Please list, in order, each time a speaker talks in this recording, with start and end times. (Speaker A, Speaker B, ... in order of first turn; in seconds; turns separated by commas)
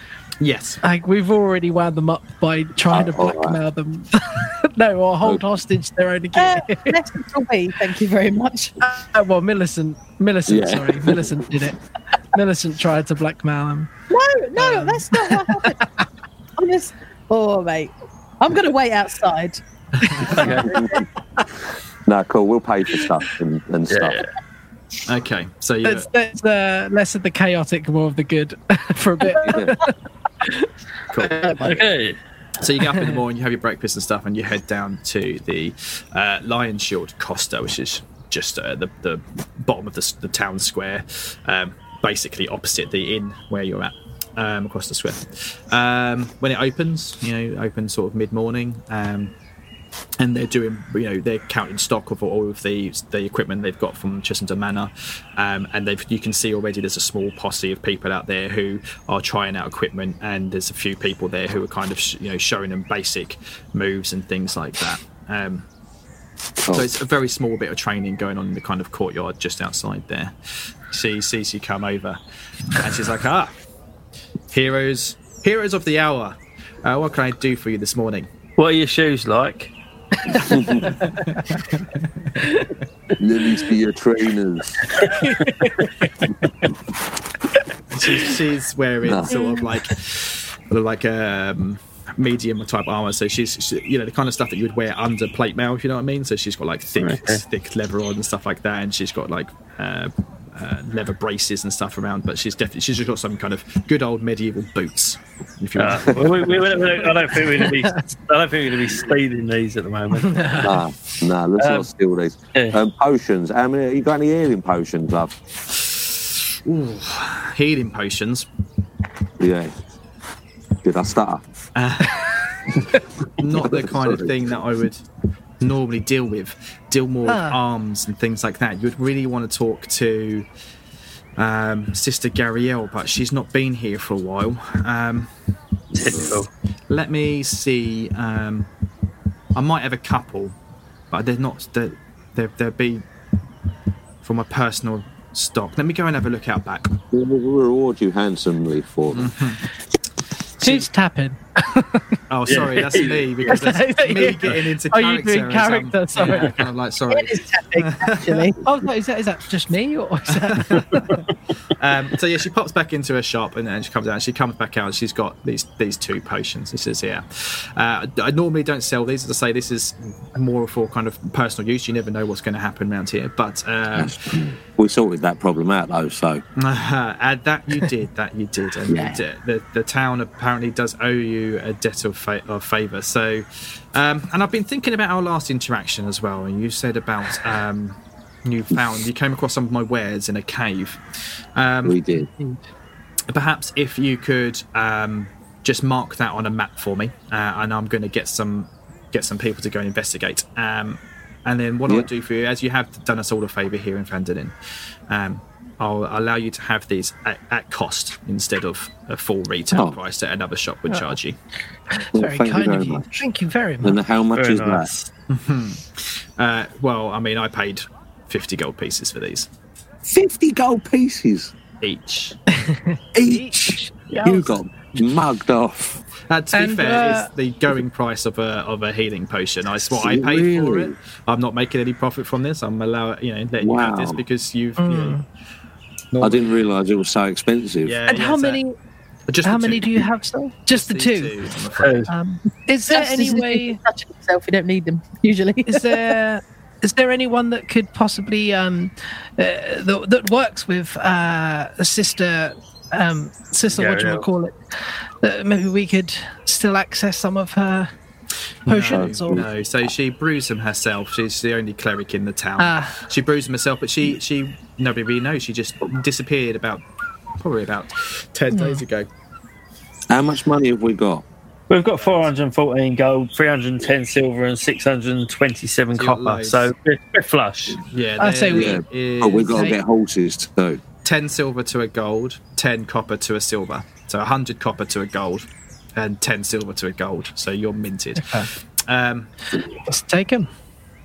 Speaker A: 0.4-0.8, Speaker B: 0.8-7.0, Speaker C: 2.9-3.6, Speaker D: 6.3-8.8, Speaker B: 8.8-11.8, Speaker C: 10.5-11.5, Speaker B: 12.3-13.9, Speaker D: 14.1-15.8, Speaker B: 14.6-16.0, Speaker D: 16.6-19.6, Speaker A: 20.0-20.4, Speaker B: 20.1-20.7, Speaker E: 20.4-20.7, Speaker C: 20.4-21.1, Speaker C: 22.1-24.2, Speaker E: 23.9-24.3, Speaker A: 25.1-26.1, Speaker B: 25.8-30.7, Speaker C: 29.4-29.8, Speaker E: 31.6-32.2, Speaker A: 32.6-49.3, Speaker A: 50.2-65.7, Speaker C: 66.6-66.9, Speaker A: 66.7-70.3, Speaker A: 70.9-72.2, Speaker A: 72.7-73.5, Speaker A: 74.5-78.3, Speaker E: 78.6-79.7, Speaker B: 80.3-81.2, Speaker C: 80.3-80.9, Speaker A: 81.1-81.8, Speaker B: 82.4-82.7, Speaker C: 83.2-84.9, Speaker B: 85.2-86.1, Speaker A: 87.9-107.2, Speaker C: 89.0-89.3, Speaker B: 89.3-89.8, Speaker E: 97.0-97.4, Speaker E: 105.8-110.5, Speaker B: 107.7-108.0, Speaker B: 110.1-110.8, Speaker C: 110.6-115.3, Speaker E: 111.6-111.9, Speaker A: 116.7-118.5, Speaker C: 119.4-119.7, Speaker C: 120.8-121.4, Speaker A: 121.8-122.6, Speaker A: 123.4-125.0, Speaker C: 123.5-124.3, Speaker A: 125.6-130.5, Speaker B: 127.3-127.6, Speaker A: 131.4-135.3, Speaker E: 135.9-136.5, Speaker C: 136.0-136.4, Speaker A: 136.9-138.7, Speaker A: 139.6-140.6, Speaker A: 141.1-143.0, Speaker A: 144.2-147.0, Speaker C: 147.1-149.3, Speaker A: 149.1-149.6, Speaker A: 150.6-150.9, Speaker B: 150.6-152.0, Speaker A: 152.3-158.5, Speaker E: 152.5-153.6, Speaker B: 153.5-156.6, Speaker D: 157.1-158.6, Speaker B: 158.6-161.2, Speaker A: 160.3-161.2, Speaker A: 161.8-174.2, Speaker C: 173.9-176.4, Speaker A: 176.6-191.0, Speaker C: 178.9-179.2, Speaker A: 191.6-192.0, Speaker C: 191.8-192.3, Speaker A: 193.3-204.5, Speaker A: 205.1-211.4, Speaker C: 209.7-210.0, Speaker B: 212.0-214.0, Speaker C: 212.2-213.2, Speaker C: 213.8-214.9, Speaker E: 214.4-215.1, Speaker A: 215.3-219.5, Speaker C: 220.1-221.5, Speaker A: 221.8-222.4, Speaker B: 222.5-224.5, Speaker C: 223.2-226.0, Speaker A: 226.3-235.2, Speaker B: 226.5-227.3, Speaker C: 229.9-230.9, Speaker C: 233.6-234.2, Speaker B: 234.8-235.2, Speaker A: 236.1-236.6, Speaker C: 236.2-238.0, Speaker A: 237.8-238.6, Speaker B: 238.1-238.8, Speaker A: 239.3-240.1, Speaker B: 239.4-241.4, Speaker A: 240.7-242.1, Speaker E: 241.8-242.1, Speaker B: 242.1-243.8, Speaker D: 242.9-246.1, Speaker B: 245.7-254.6, Speaker E: 253.7-254.3, Speaker B: 255.2-257.9, Speaker B: 258.7-259.4, Speaker A: 258.7-266.8, Speaker C: 258.9-259.5, Speaker B: 262.6-263.1, Speaker A: 267.4-269.1, Speaker B: 268.5-268.8, Speaker C: 270.1-271.2, Speaker E: 271.7-277.8, Speaker A: 272.0-272.3, Speaker A: 275.9-276.7, Speaker A: 277.9-279.6, Speaker B: 278.2-279.8, Speaker C: 278.5-280.8, Speaker A: 281.0-289.3, Speaker B: 288.2-288.5, Speaker B: 289.9-290.5